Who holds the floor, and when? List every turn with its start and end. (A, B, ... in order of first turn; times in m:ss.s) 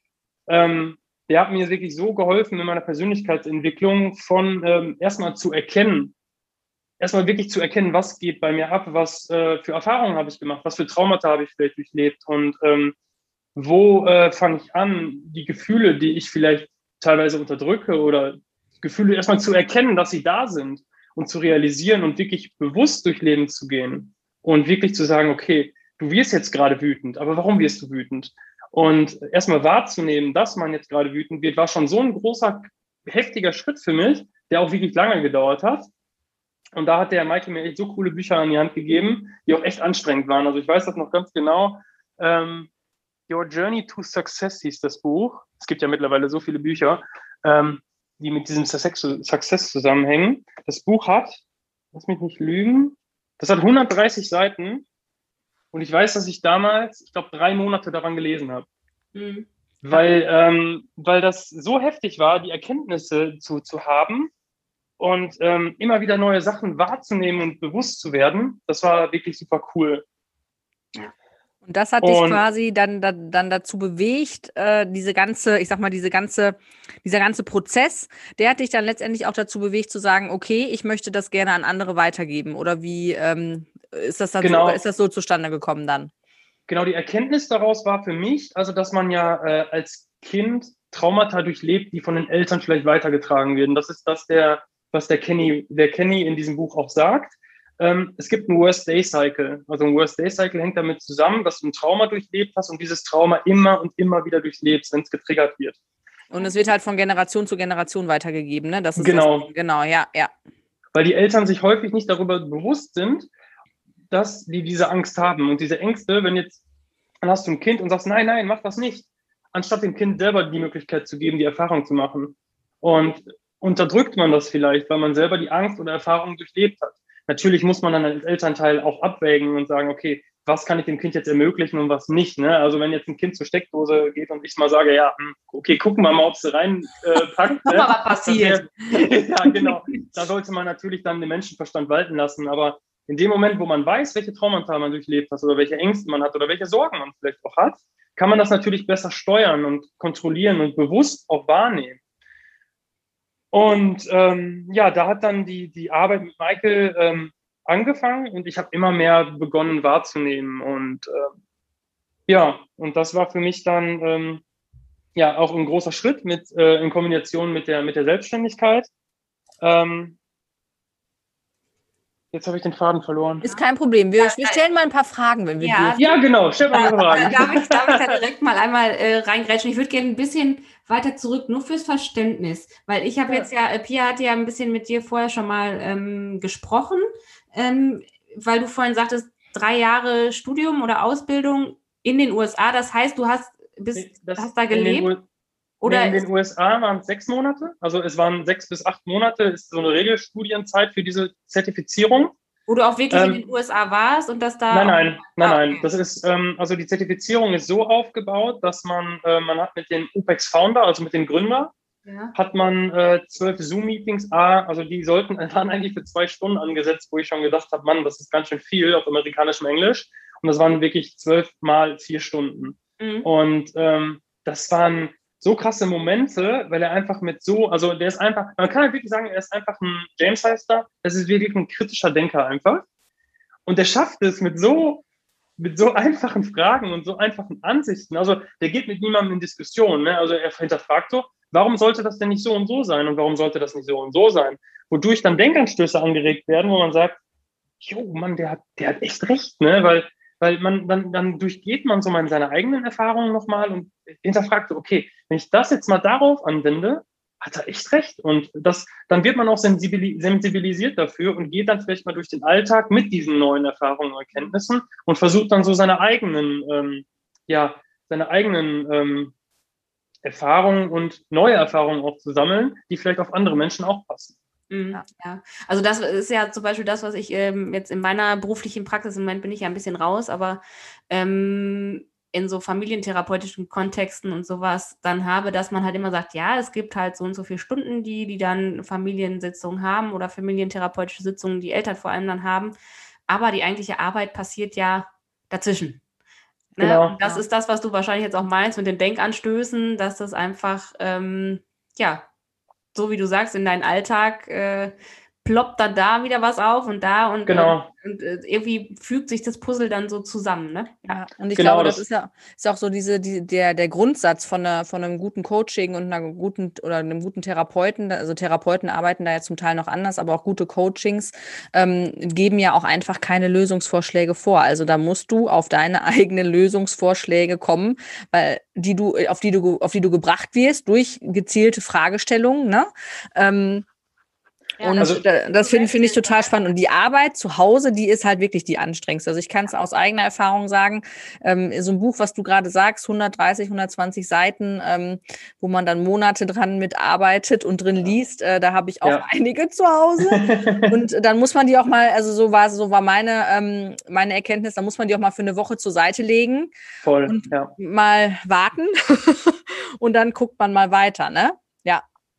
0:00.5-0:06.1 A
0:07.0-0:12.9 A
0:13.5-0:35.9 A
0:36.7-0:42.7 A
0:43.3-0:51.4 A
0:51.9-0:54.8 A
0:55.7-0:58.6 A
0:59.1-1:00.0 B
0:59.8-1:04.3 A
1:05.0-1:10.0 A
1:11.6-1:26.1 C
1:12.0-1:12.4 A
1:24.4-1:24.8 A
1:26.7-1:45.8 A
1:46.3-1:50.3 C
1:49.0-1:49.5 A
1:50.9-1:53.3 A
1:54.1-1:56.6 A
1:57.2-2:32.0 A
2:17.6-2:19.8 B
2:33.5-2:41.3 A
2:42.3-2:44.4 A
2:45.1-2:48.9 A
2:49.6-2:50.2 A
2:52.3-2:53.4 A
2:53.4-2:56.1 C
2:54.2-2:54.6 B
2:55.6-2:56.0 B
2:56.0-2:58.2 A
2:56.7-3:15.1 B
2:57.1-2:57.4 C
3:14.0-3:15.2 A
3:15.8-3:16.2 B
3:15.8-3:22.3 A
3:22.7-3:25.9 B
3:23.1-3:23.4 A
3:24.7-3:31.7 A
3:32.0-3:32.3 B
3:32.3-3:52.8 A
3:43.0-3:43.3 B
3:53.6-3:55.0 A
3:55.6-4:07.2 A
4:07.8-4:29.3 A
4:30.2-4:34.3 A
4:34.7-4:52.8 B
4:53.3-4:56.0 B
4:56.8-4:57.4 C
4:56.8-5:02.2 B
4:56.8-4:57.1 A
5:02.9-5:11.2 B
5:07.5-5:07.9 A
5:11.1-5:33.8 C
5:11.6-5:12.0 A
5:34.8-5:36.5 B
5:34.8-5:56.7 C
5:50.2-5:51.0 A
5:57.0-5:57.7 A
5:57.2-6:02.0 C